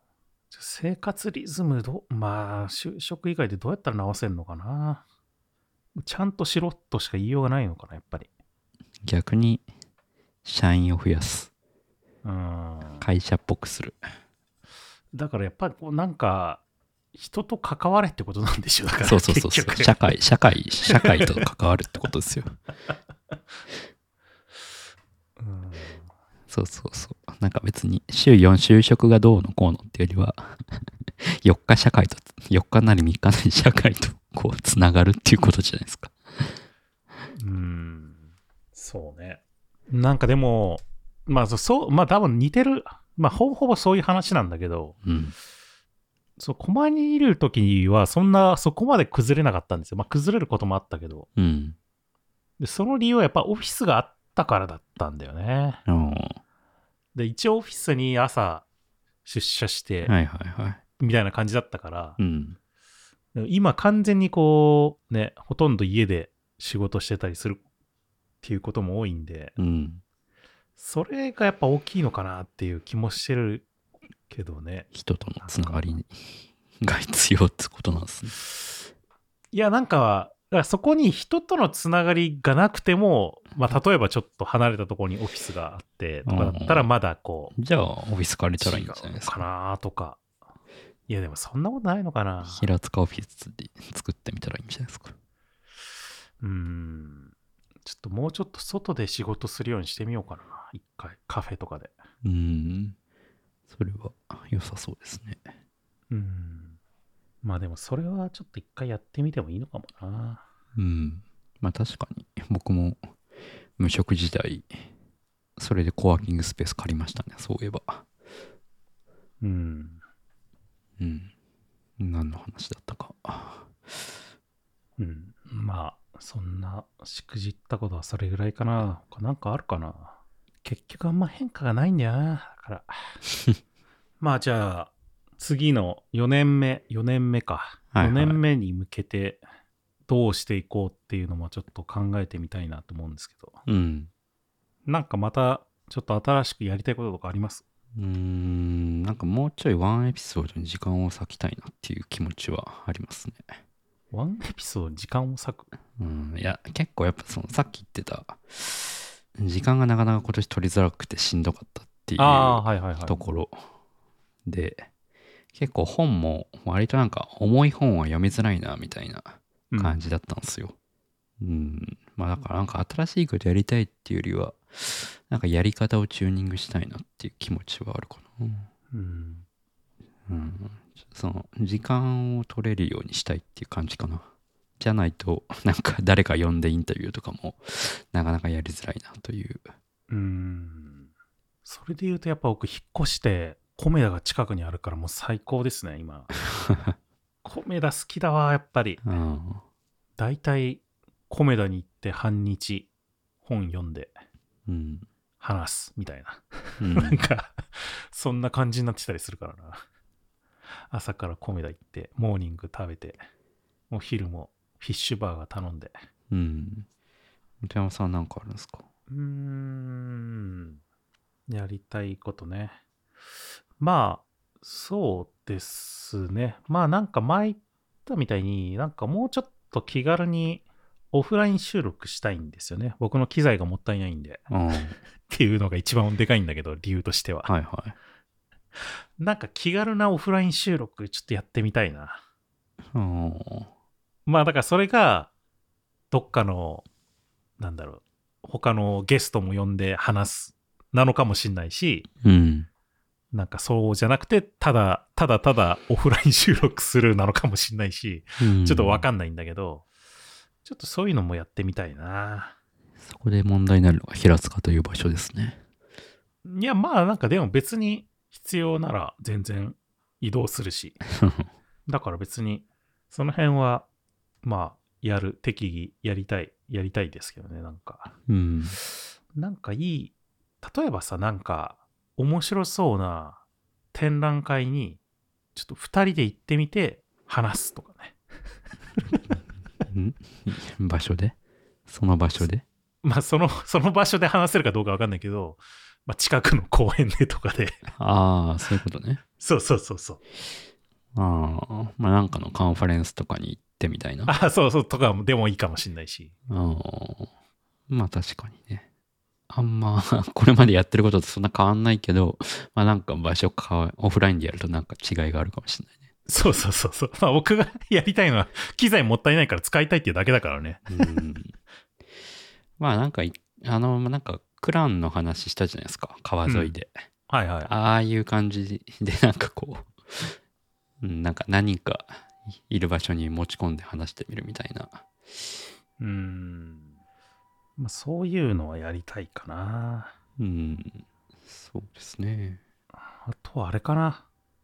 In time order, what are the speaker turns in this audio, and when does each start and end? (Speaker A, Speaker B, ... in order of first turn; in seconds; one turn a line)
Speaker A: 0.5-5.0
Speaker A: 6.0-8.3
Speaker B: 9.0-9.7
Speaker B: 10.4-11.5
Speaker A: 12.2-13.1
Speaker B: 13.0-14.0
Speaker A: 15.1-16.6
Speaker A: 17.1-20.1
Speaker B: 19.0-22.5
Speaker A: 20.9-21.4
Speaker A: 25.4-26.0
Speaker B: 26.5-36.6
Speaker A: 37.4-38.2
Speaker A: 38.8-45.0
Speaker B: 45.0-45.4
Speaker A: 46.4-51.3
Speaker B: 51.4-51.8
Speaker A: 52.6-55.8
Speaker B: 55.9-56.4
Speaker A: 57.1-58.6
Speaker A: 59.2-60.1
Speaker B: 60.1-60.8
Speaker A: 61.0-62.2
Speaker B: 62.2-62.6
Speaker A: 63.4-67.6
Speaker A: 68.4-69.6
Speaker B: 69.6-70.0
Speaker A: 70.8-73.7
Speaker A: 74.3-74.9
Speaker B: 74.9-78.4
Speaker A: 75.4-76.0
Speaker A: 79.5-87.5
Speaker B: 86.3-86.9
Speaker B: 87.5-89.4
Speaker A: 88.6-90.2
Speaker A: 91.1-92.7
Speaker B: 92.5-95.1
Speaker A: 96.4-97.3
Speaker A: 97.8-102.0
Speaker B: 102.2-103.0
Speaker B: 103.7-105.5
Speaker A: 106.1-106.8
Speaker A: 107.4-110.4
Speaker B: 110.8-113.0
Speaker B: 113.8-114.8
Speaker B: 115.6-118.0
Speaker A: 119.4-120.0
Speaker B: 121.0-121.3
Speaker B: 122.0-124.1
Speaker A: 125.0-133.2
Speaker A: 134.2-139.4
Speaker B: 137.9-138.4
Speaker A: 140.1-143.6
Speaker B: 143.7-144.1
Speaker A: 144.9-147.6
Speaker B: 148.0-153.6
Speaker A: 154.1-155.7
Speaker B: 156.0-163.6
Speaker A: 162.2-163.2
Speaker B: 164.5-164.9
Speaker B: 165.5-170.8
Speaker A: 169.7-170.0
Speaker B: 171.4-178.7
Speaker A: 178.9-179.4
Speaker B: 180.3-184.3
Speaker B: 184.8-189.7
Speaker A: 190.1-191.1
Speaker A: 191.7-196.3
Speaker B: 196.7-196.9
Speaker A: 197.4-199.0
Speaker B: 199.0-199.6
Speaker A: 200.2-202.9
Speaker A: 203.4-204.2
Speaker B: 204.7-205.1
Speaker A: 205.4-209.8
Speaker B: 206.8-207.2
Speaker A: 210.9-213.2
Speaker A: 213.9-216.0
Speaker B: 216.3-216.9
Speaker B: 217.6-218.8
Speaker A: 219.1-220.8
Speaker A: 221.5-222.8
Speaker A: 223.8-234.4
Speaker B: 234.5-235.0
Speaker A: 235.3-237.5
Speaker B: 237.5-238.0
Speaker A: 239.2-242.2
Speaker B: 242.9-243.7
Speaker A: 244.3-245.3
Speaker A: 246.1-246.8
Speaker A: 247.6-252.1
Speaker B: 252.2-252.7
Speaker A: 253.3-259.9
Speaker B: 258.4-259.1
Speaker A: 260.6-262.6
Speaker B: 263.0-265.6
Speaker A: 266.4-271.0
Speaker B: 271.1-271.5
Speaker A: 271.9-273.9
Speaker A: 274.4-278.1
Speaker B: 278.3-278.8
Speaker A: 279.4-283.4
Speaker A: 283.9-285.0
Speaker A: 285.6-288.2
Speaker B: 289.9-291.4
Speaker B: 291.9-292.6
Speaker A: 293.0-297.8
Speaker B: 297.9-299.2
Speaker A: 299.4-300.2
Speaker B: 301.1-304.3
Speaker A: 304.3-306.3
Speaker B: 306.5-307.3
Speaker B: 307.9-308.9
Speaker B: 309.5-316.0
Speaker A: 316.3-321.1
Speaker B: 320.9-321.6
Speaker B: 322.8-326.9
Speaker A: 326.5-326.8
Speaker A: 327.3-327.7
Speaker B: 327.7-330.4
Speaker B: 331.0-335.1
Speaker A: 336.0-336.9
Speaker A: 337.8-340.1
Speaker B: 340.4-342.6
Speaker A: 343.3-344.2